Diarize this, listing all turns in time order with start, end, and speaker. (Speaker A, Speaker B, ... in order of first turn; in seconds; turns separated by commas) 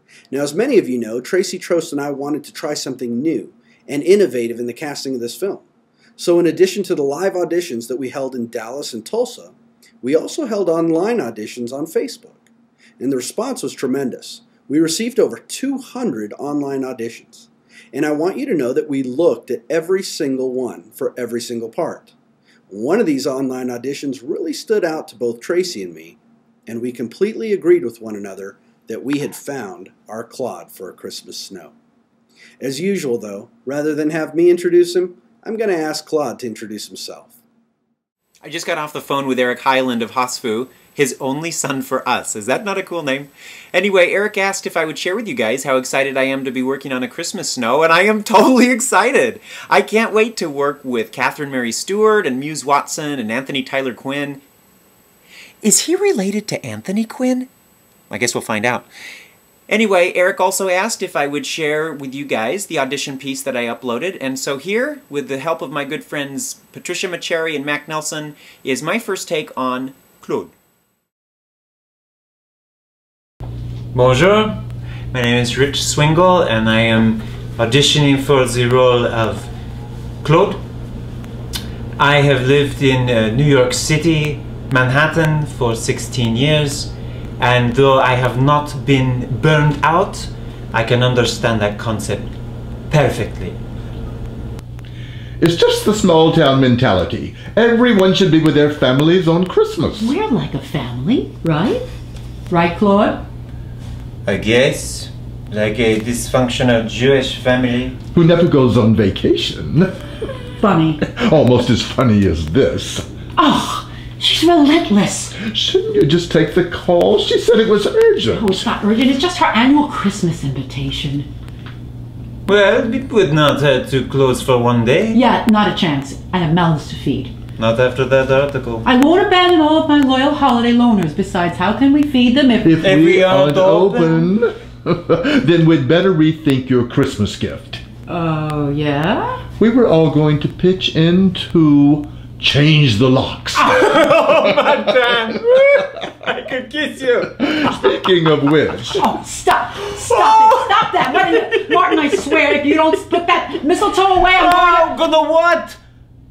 Speaker A: 0.3-5.6, Speaker A: 6.2-12.5, Speaker A: 13.0-22.1, Speaker A: 22.7-31.8, Speaker A: 32.6-37.3, Speaker B: 38.4-54.4, Speaker B: 55.6-57.5, Speaker B: 58.1-58.9, Speaker B: 59.7-70.5, Speaker B: 73.9-79.5, Speaker B: 80.2-80.6, Speaker B: 82.0-92.3, Speaker B: 92.9-93.6, Speaker C: 95.4-100.1, Speaker D: 100.0-101.8, Speaker D: 102.5-103.2, Speaker B: 104.2-108.0, Speaker C: 108.1-110.0, Speaker D: 110.6-111.0, Speaker C: 111.0-113.1, Speaker D: 113.3-115.3, Speaker C: 115.3-118.7, Speaker D: 118.3-121.3, Speaker B: 122.5-125.2, Speaker D: 125.1-127.3, Speaker B: 127.6-128.8, Speaker D: 128.8-132.8, Speaker C: 132.6-137.8, Speaker B: 132.8-134.3, Speaker D: 138.1-139.4, Speaker C: 139.6-143.7, Speaker D: 143.6-144.0, Speaker B: 143.7-147.4, Speaker C: 147.3-149.0, Speaker D: 149.0-154.9, Speaker B: 149.9-152.8, Speaker B: 154.3-155.8